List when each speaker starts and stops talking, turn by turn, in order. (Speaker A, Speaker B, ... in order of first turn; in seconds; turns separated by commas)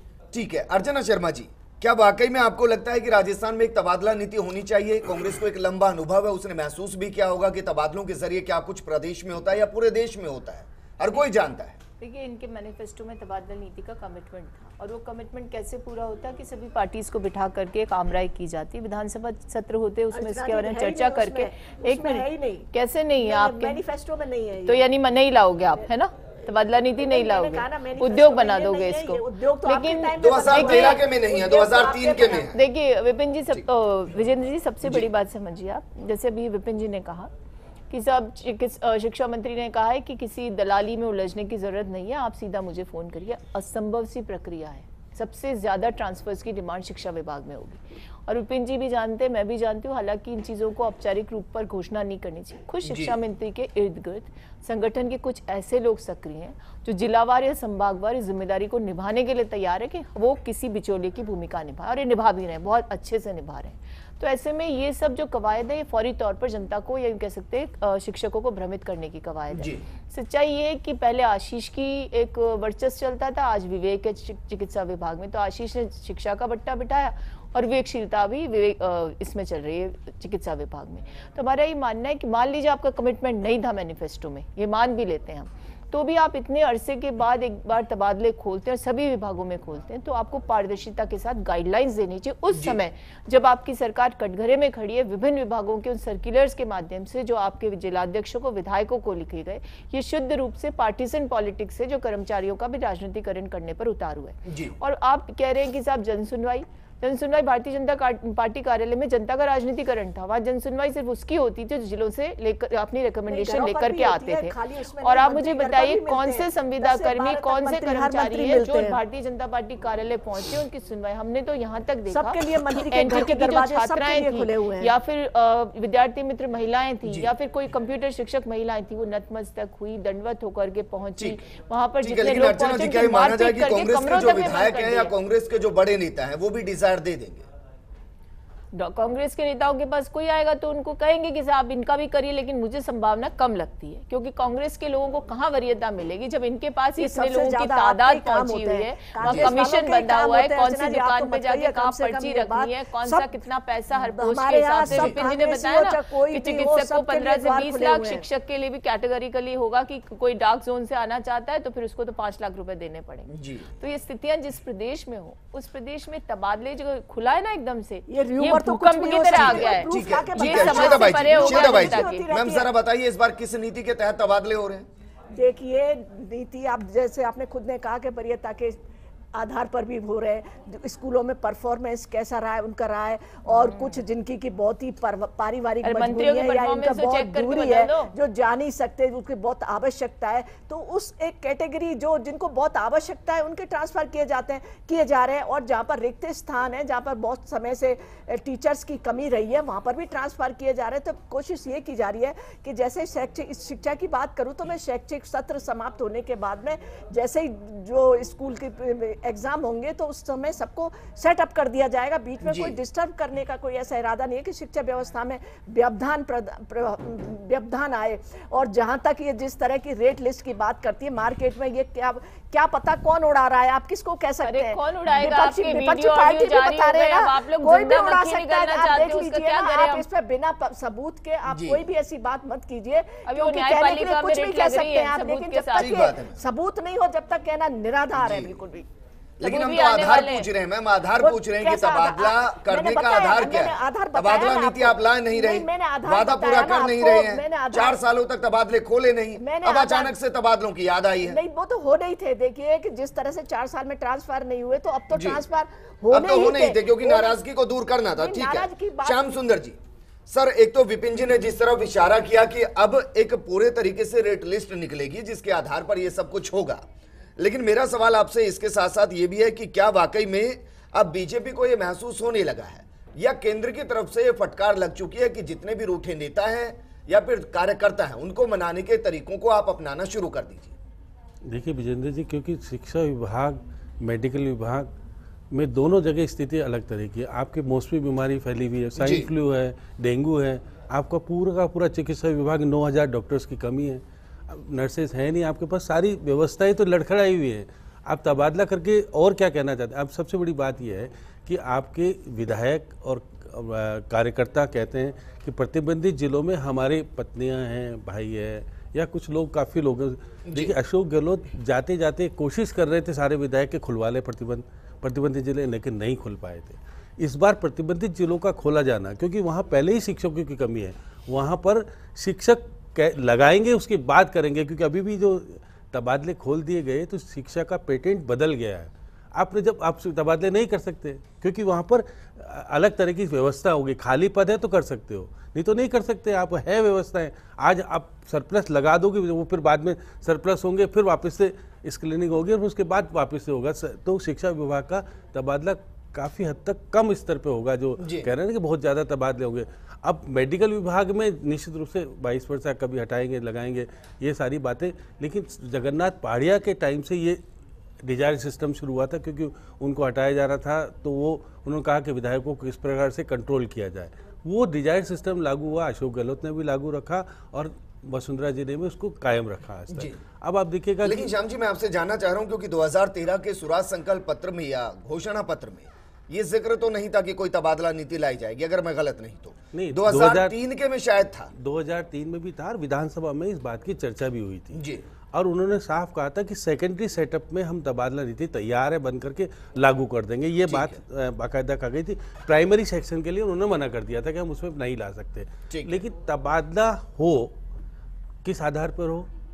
Speaker A: 0.3-11.8, Speaker B: 12.0-23.8, Speaker C: 20.1-22.7, Speaker C: 23.2-24.9, Speaker B: 24.6-31.0, Speaker C: 27.0-32.5, Speaker A: 30.2-32.6, Speaker B: 32.5-37.3, Speaker B: 37.9-135.1, Speaker A: 52.9-53.1, Speaker A: 69.5-69.8, Speaker A: 104.5-104.7, Speaker C: 113.3-119.0, Speaker C: 122.1-124.9, Speaker A: 127.0-127.3, Speaker A: 131.2-131.4, Speaker A: 132.0-137.4, Speaker B: 138.7-172.2, Speaker C: 147.0-153.3, Speaker C: 153.9-158.2, Speaker A: 154.9-155.2, Speaker A: 163.3-163.7, Speaker C: 168.1-172.7, Speaker A: 169.3-174.9, Speaker C: 175.3-178.8, Speaker C: 179.3-238.8, Speaker B: 183.5-183.9, Speaker B: 185.8-188.1, Speaker A: 212.4-212.8, Speaker B: 224.4-230.0, Speaker A: 231.5-231.8, Speaker B: 233.2-236.0, Speaker A: 235.8-236.4, Speaker A: 238.2-238.6, Speaker A: 239.4-251.4, Speaker B: 239.4-240.5, Speaker C: 241.2-248.0, Speaker C: 249.4-250.1, Speaker C: 251.2-257.4, Speaker A: 255.1-255.4, Speaker A: 256.1-259.8, Speaker C: 258.1-259.3, Speaker A: 260.3-266.8, Speaker A: 267.4-280.7, Speaker D: 281.4-284.9, Speaker D: 285.5-357.4, Speaker A: 289.0-289.3, Speaker A: 310.5-310.7, Speaker A: 348.0-348.3, Speaker D: 358.0-371.3, Speaker A: 369.9-370.2, Speaker A: 371.0-381.5, Speaker D: 379.7-380.5, Speaker D: 381.6-397.5, Speaker A: 384.7-385.0, Speaker A: 390.7-391.0, Speaker A: 395.7-396.0, Speaker D: 398.4-399.3